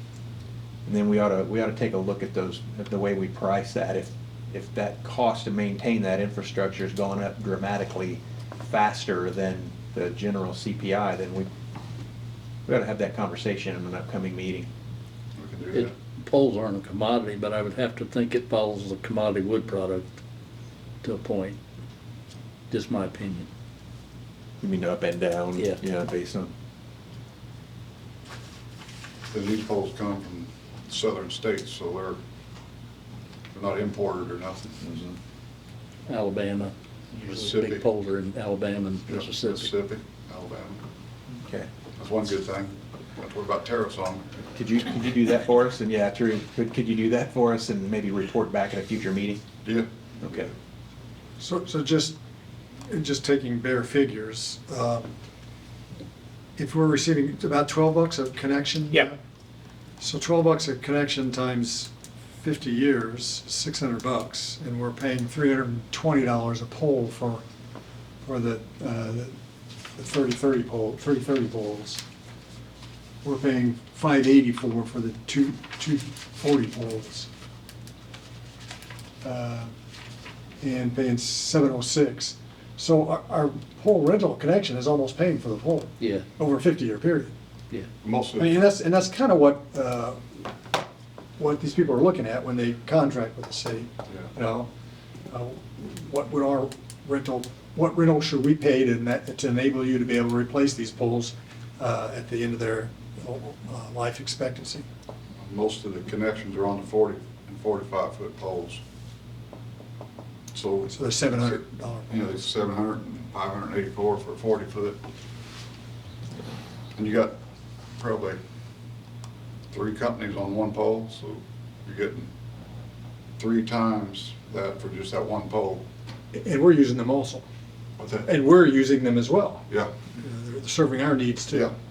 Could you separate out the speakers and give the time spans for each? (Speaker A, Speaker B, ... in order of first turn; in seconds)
Speaker A: 0.9-11.5, 12.7-14.7, 24.6-26.5, 34.9-35.1, 41.3-41.7, 44.5-49.4, 50.2-50.5
Speaker B: 15.4-15.9, 29.3-32.2, 33.5-35.1, 37.1-37.8, 39.1-40.8, 42.0-44.2, 49.6-50.5, 88.0-88.5, 105.4-108.8, 110.5-115.0, 117.0-117.4, 118.0-118.4, 119.7-122.3, 123.4-125.8, 128.0-128.3
Speaker C: 15.7-20.1, 21.0-21.6, 22.7-23.5, 36.1-39.7, 86.0-86.2
Speaker D: 51.4-52.2, 52.9-55.1, 56.6-59.2, 60.0-67.4, 68.2-69.4, 70.0-72.0, 73.2-77.3, 79.2-79.7, 80.6-87.3, 88.4-90.5, 91.4-94.7, 95.3-104.9, 110.9-112.4, 126.3-127.5, 128.2-131.7